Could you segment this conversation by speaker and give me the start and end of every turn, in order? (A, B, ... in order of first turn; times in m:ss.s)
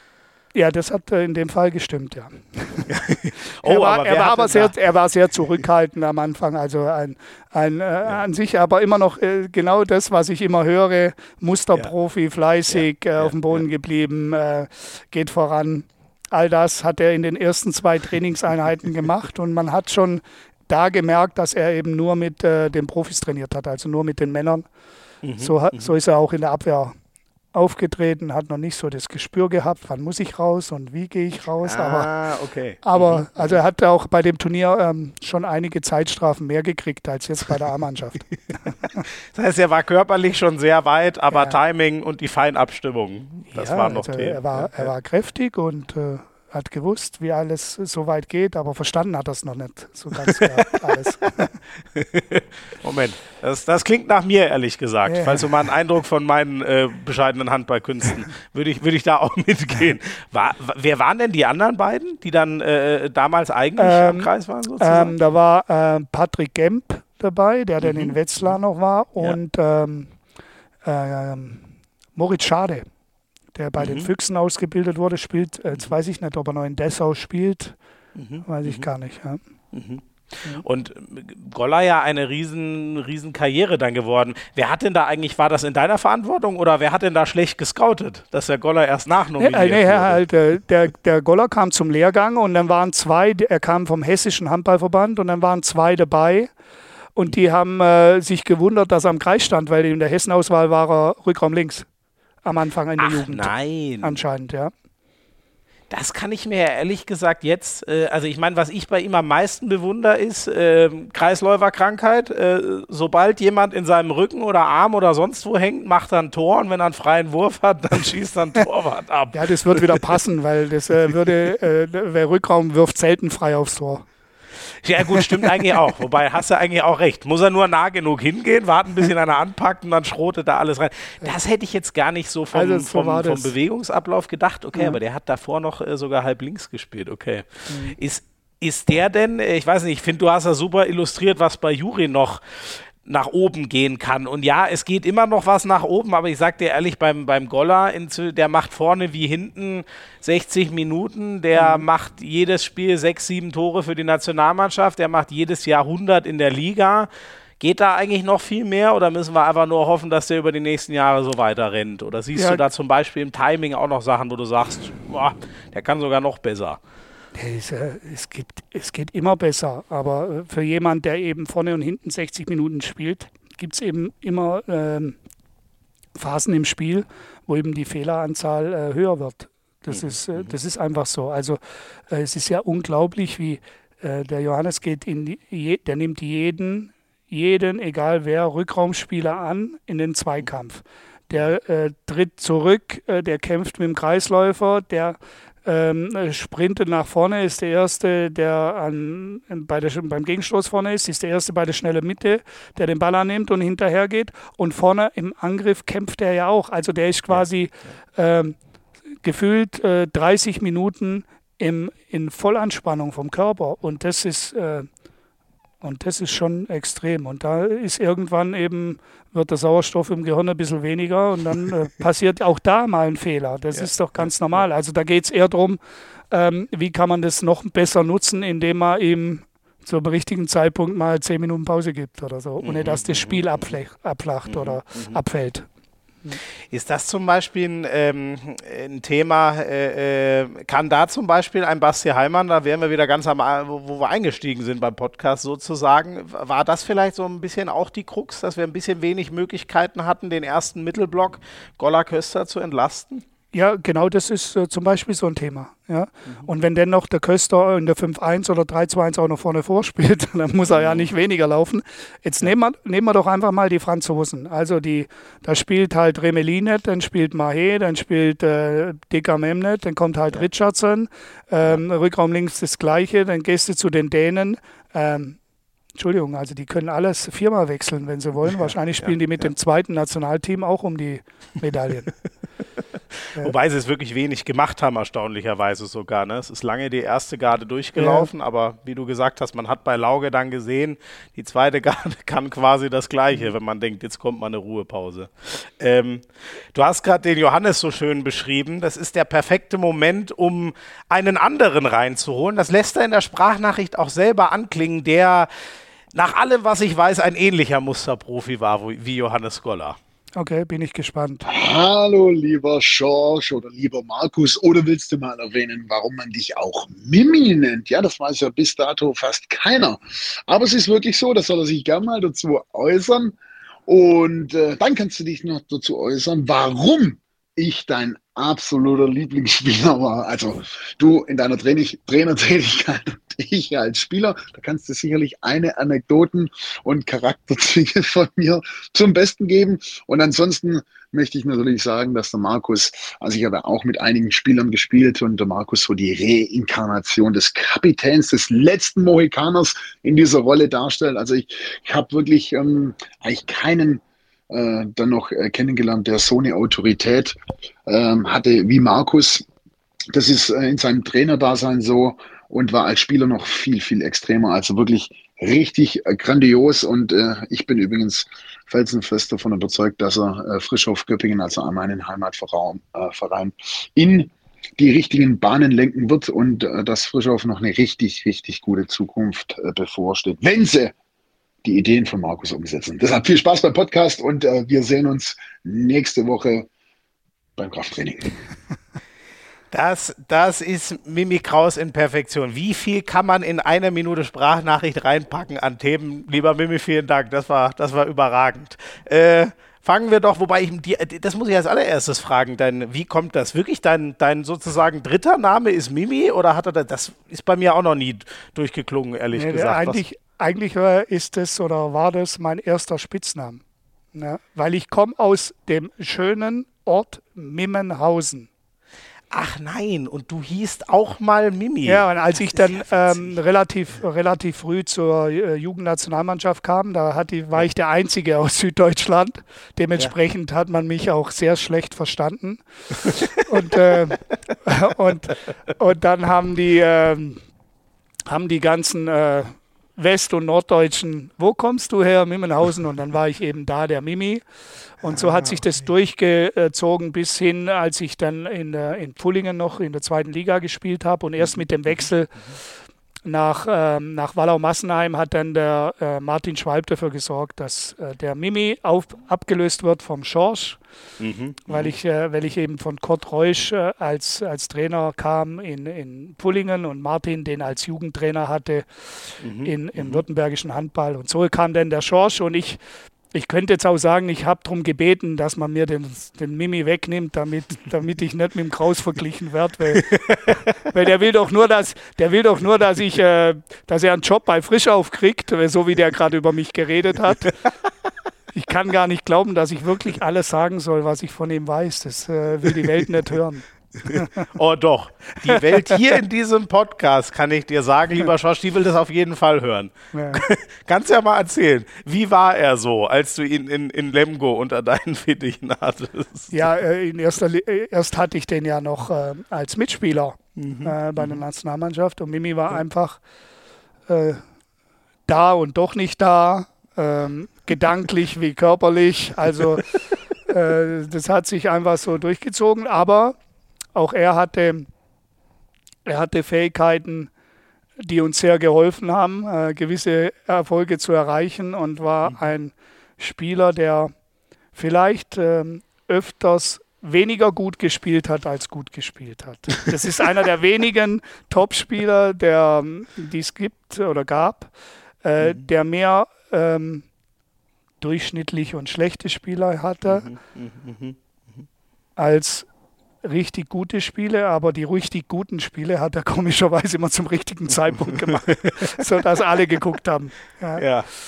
0:00.5-0:02.9 A
0:02.9-0:04.7 B
0:03.6-0:24.6 A
0:12.7-0:13.6 B
0:25.2-0:25.9 B
0:25.4-0:26.9 A
0:27.5-0:32.1 A
0:31.6-0:33.5 B
0:32.8-0:39.0 A
0:39.3-0:44.9 B
0:43.5-0:51.5 A
0:50.2-0:51.3 B
0:51.9-1:05.2 B
0:55.1-0:55.4 A
1:03.8-1:10.1 A
1:07.8-1:08.1 B
1:10.8-1:12.8 A
1:13.5-1:17.8 A
1:13.8-1:14.1 B
1:18.1-1:18.8 B
1:18.4-1:19.4 A
1:19.7-1:30.2 B
1:29.4-1:36.5 A
1:37.2-1:41.8 A
1:42.4-1:44.7 A
1:43.0-1:44.2 B
1:45.9-2:00.0 B
1:59.3-2:04.1 A
2:04.8-2:46.8 B
2:05.1-2:05.5 A
2:12.5-2:13.5 A
2:17.7-2:18.0 A
2:31.6-2:31.8 A
2:42.3-2:42.6 A
2:47.3-2:55.2 A
2:56.1-3:28.6 A
3:29.2-3:34.9 A
3:35.8-3:45.8 A
3:46.3-3:55.7 A
3:52.6-3:53.4 B
3:54.5-3:55.2 B
3:56.7-4:13.2 B
4:13.5-4:35.4 A
4:20.7-4:21.1 B
4:35.9-4:42.1 A
4:38.6-4:39.2 B
4:43.4-5:05.5 B
4:48.0-4:48.3 A
5:06.1-5:10.0 B
5:10.4-5:11.5 A
5:11.5-5:23.4 C
5:23.9-5:59.4 C
6:00.1-6:20.9 C
6:21.6-6:26.7 C
6:27.6-6:28.4 C
6:29.7-6:50.0 B
6:49.3-6:53.6 A
6:54.1-6:58.5 A
6:59.3-7:03.1 B
7:01.8-7:17.4 A
7:18.3-7:24.4 A
7:25.0-7:32.5 A
7:25.1-7:25.6 B
7:33.2-7:40.8 A
7:41.2-7:41.9 B
7:41.7-7:52.8 A
7:49.4-7:50.2 B
7:53.3-8:07.6 A
7:59.9-8:00.5 B
8:08.5-8:14.4 A
8:14.0-8:26.5 B
8:15.5-8:16.0 A
8:20.1-8:20.5 A
8:26.5-8:33.2 A
8:30.6-8:31.4 B
8:34.1-8:34.4 A
8:35.3-8:43.4 A
8:43.9-8:44.9 A
8:46.0-8:47.3 A
8:48.0-8:54.1 A
8:54.7-9:04.7 A
9:05.2-9:07.0 A
9:08.0-9:10.3 A
9:10.1-9:11.6 B
9:12.2-9:12.7 A
9:13.2-9:20.8 A
9:18.3-9:19.0 B
9:20.8-9:21.1 B